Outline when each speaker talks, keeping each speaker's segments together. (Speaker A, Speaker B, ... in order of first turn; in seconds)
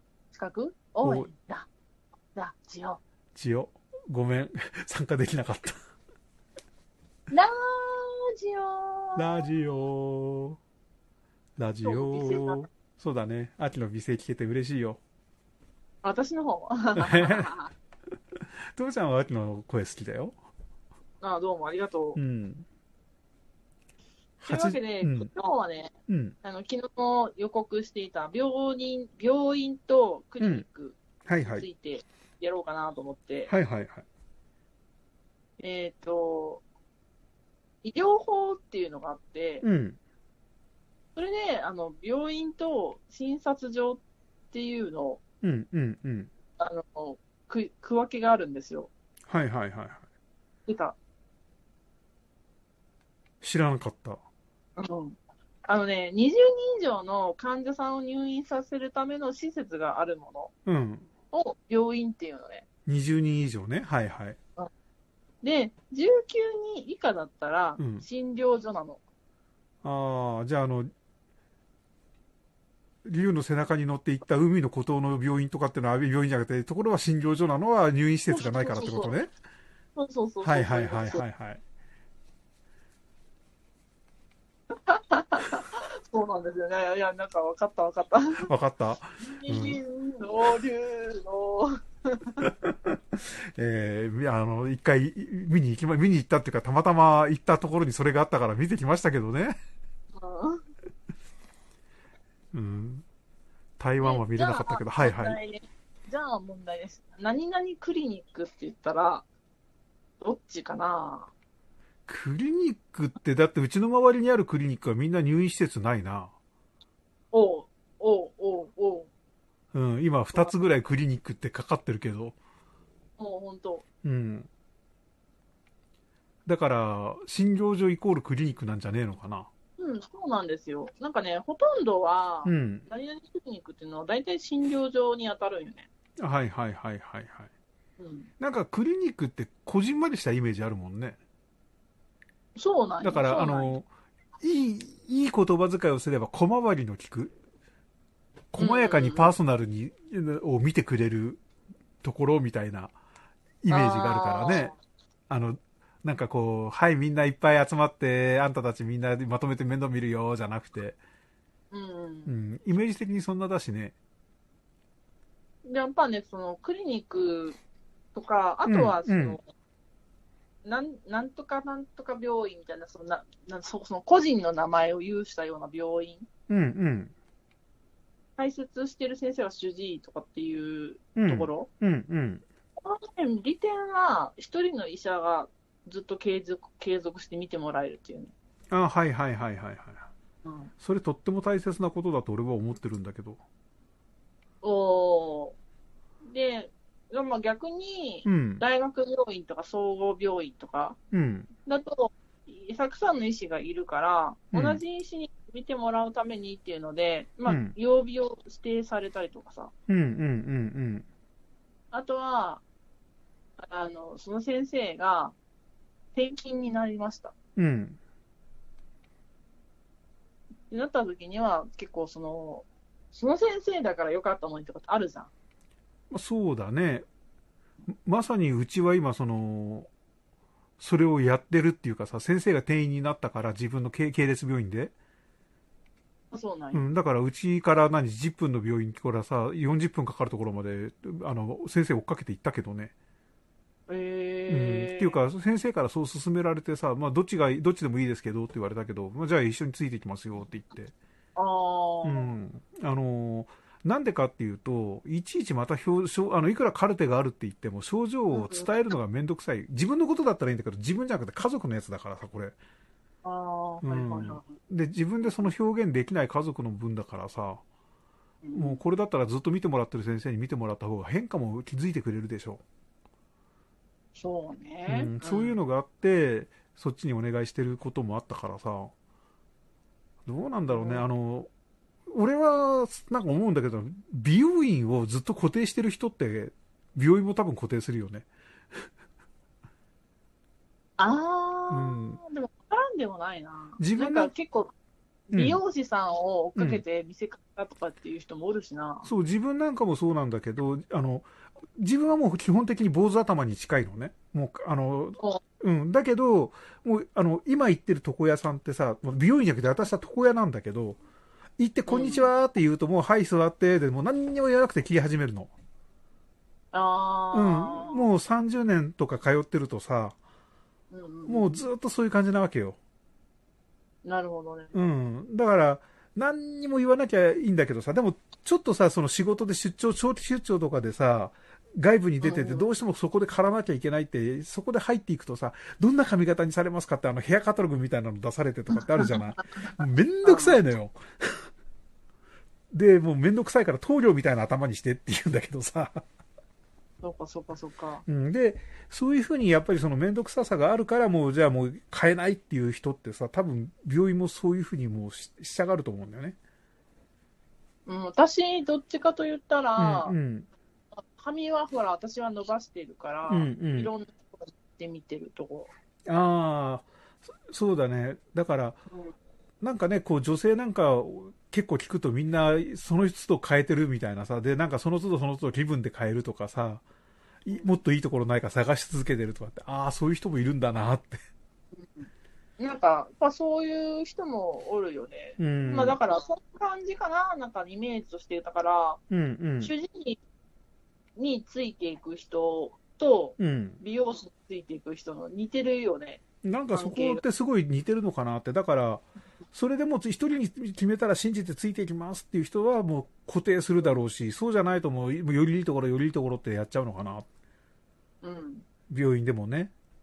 Speaker A: 0.3-1.7, 2.4-3.0, 7.3-9.6, 11.8-12.6, 16.0-17.7, 21.2-22.2, 24.5-33.5, 35.6-36.6, 37.8-39.6, 41.2-45.2, 46.6-48.9, 50.7-51.0, 54.8-60.5, 61.3-62.6, 65.4-69.0, 78.3-79.2, 80.0-81.2, 84.9-88.5, 89.3-92.5, 100.2-100.6, 104.0-109.3, 110.2-111.3, 117.3-119.1, 123.2-123.8, 129.8-135.9, 138.0-138.3, 142.6-143.8, 148.6-149.3, 153.7-154.8, 161.7-162.3, 165.7-167.6, 168.2-169.4, 170.6-176.3, 178.4-181.7, 182.8-188.3, 190.4-190.7, 194.6-195.6, 196.3-201.0, 201.7-209.7, 211.9-212.6, 213.6-215.3, 216.1-217.3, 220.7-225.3, 236.3-236.9, 243.9-245.2, 251.4-252.3, 258.3-258.7, 263.2-264.6, 268.4-268.8, 274.1-275.6, 280.7-281.1, 291.0-294.7, 295.3-299.1, 311.9-312.3, 316.7-318.1, 320.9-321.6, 324.0-324.8, 332.2-332.7, 338.7-340.6, 347.0-348.0, 357.9-360.2, 361.0-365.7, 377.5-377.8, 381.8-389.0, 389.6-390.2, 391.2-396.2, 396.7-397.2, 408.2-408.6
Speaker B: 1.0-1.3, 3.4-5.8, 9.2-10.6, 11.6-15.0, 17.0-17.5, 18.8-20.4, 22.2-22.7, 24.4-25.3, 26.1-26.4, 30.4-30.6, 31.3-31.7, 33.5-34.1, 39.6-40.0, 45.4-46.3, 49.3-50.0, 53.4-54.2, 60.7-61.1, 62.9-64.4, 67.8-68.0, 69.8-70.9, 73.0-79.3, 80.4-81.6, 88.5-89.8, 92.4-99.5, 102.5-103.1, 103.8-105.4, 112.1-116.3, 119.7-122.4, 124.0-124.5, 126.5-129.5, 132.4-132.9, 136.2-137.5, 138.4-141.2, 143.0-143.9, 144.4-147.3, 148.5-151.4, 152.0-152.9, 153.6-154.7, 155.3-161.0, 162.3-164.0, 168.7-169.4, 176.5-177.1, 181.2-182.4, 188.7-190.1, 190.8-193.4, 198.2-198.6, 201.1-201.5, 204.5-204.8, 207.5-207.8, 209.9-211.1, 217.6-218.0, 226.1-227.1, 227.9-229.9, 230.8-234.9, 236.7-242.9, 244.5-250.9, 252.0-262.6, 263.8-267.6, 268.6-272.6, 274.9-278.9, 280.3-281.5, 282.1-288.3, 291.7-292.2, 293.8-294.3, 295.3-295.6, 296.6-296.8, 299.1-311.0, 311.6-315.5, 317.3-320.2, 321.3-322.8, 324.7-341.4, 342.7-346.0, 348.1-356.4, 359.8-360.5, 363.3-363.9, 366.1-366.9, 367.4-368.8, 369.6-376.8, 377.4-381.2, 385.4-386.0, 389.1-389.7, 393.4-393.8, 396.4-407.3, 408.9-409.7